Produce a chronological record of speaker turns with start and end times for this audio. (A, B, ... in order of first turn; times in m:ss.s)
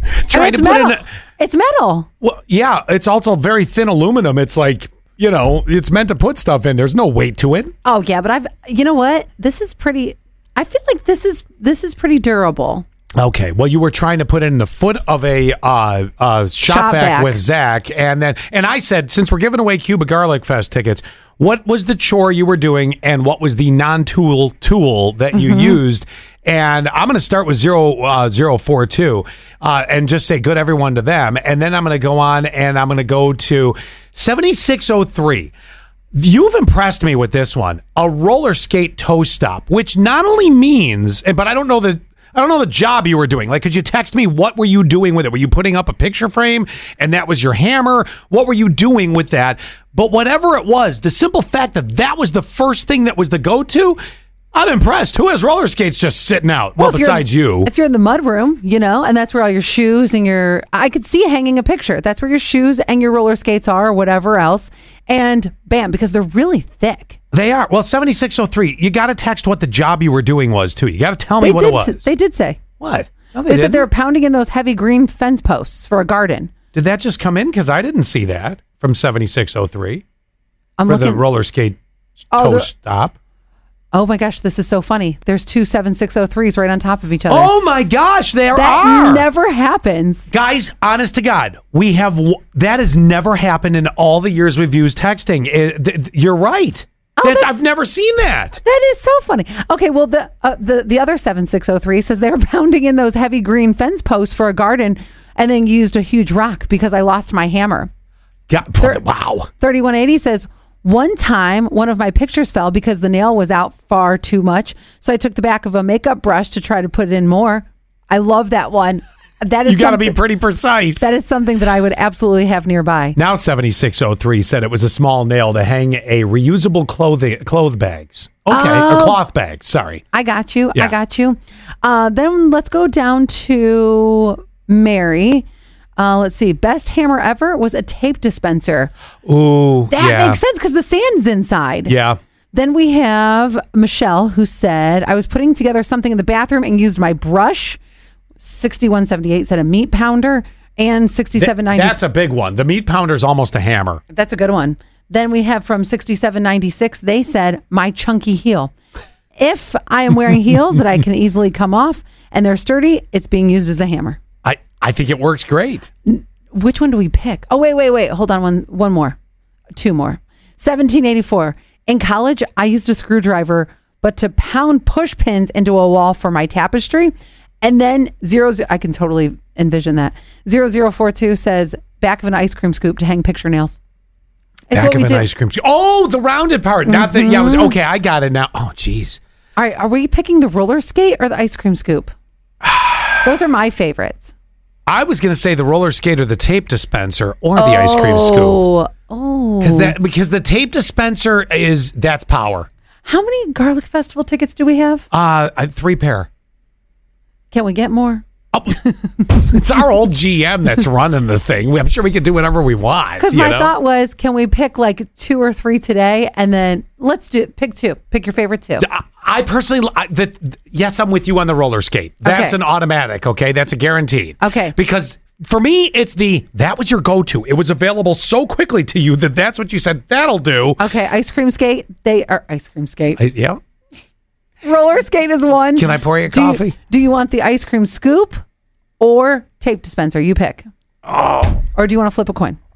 0:00.2-0:01.0 A
0:00.3-0:02.1 B
0:02.2-0:07.7 A
0:07.8-0:12.8 B
0:13.2-0:35.5 A
0:16.6-0:17.4 B
0:25.3-0:25.8 B
0:36.1-0:54.0 A
0:54.5-0:57.7 A
0:56.8-1:07.2 B
1:07.3-1:12.1 A
1:11.4-1:12.6 B
1:12.8-1:13.8 A
1:13.5-1:16.5 B
1:16.7-1:20.0 A
1:20.8-1:21.2 B
1:20.9-1:21.8 A
1:22.3-1:22.7 B
1:22.3-1:23.2 A
1:23.9-1:27.5 B
1:27.3-1:29.2 A
1:28.5-1:30.3 B
1:30.3-1:38.6 A
1:37.2-1:37.6 B
1:38.6-1:47.9 B
1:48.5-1:49.5 A
1:48.8-2:00.2 B
1:59.6-2:01.1 A
2:01.0-2:03.2 B
2:03.2-2:10.0 A
2:08.5-2:09.2 B
2:10.1-2:15.4 B
2:16.0-2:18.9 B
2:19.2-2:20.4 A
2:19.9-2:21.9 B
2:21.9-2:22.2 A
2:22.5-2:27.8 B
2:28.4-2:32.0 B
2:31.4-2:34.0 A
2:34.1-2:38.7 B
2:39.4-2:44.2 B
2:44.4-2:45.9 A
2:46.0-2:49.2 B
2:49.7-3:03.8 B
3:04.7-3:05.3 B
3:04.7-3:09.2 A
3:06.8-3:07.7 B
3:09.6-3:12.1 B
3:12.6-3:13.2 A
3:13.2-3:14.3 B
3:14.9-3:18.6 A
3:17.6-3:20.0 B
3:19.6-3:22.7 A
3:23.0-3:25.0 B
3:25.1-3:26.3 A
3:27.5-3:29.6 B
3:29.4-3:33.7 A
3:33.2-3:38.8 B
3:38.8-3:50.8 A
3:42.2-3:42.6 B
3:44.4-3:44.7 B
3:50.8-3:53.2 B
3:53.2-3:53.6 A
3:54.6-3:58.4 B
3:55.8-3:56.7 A
3:59.0-4:00.7 B
4:01.0-4:01.6 A
4:01.7-4:02.6 B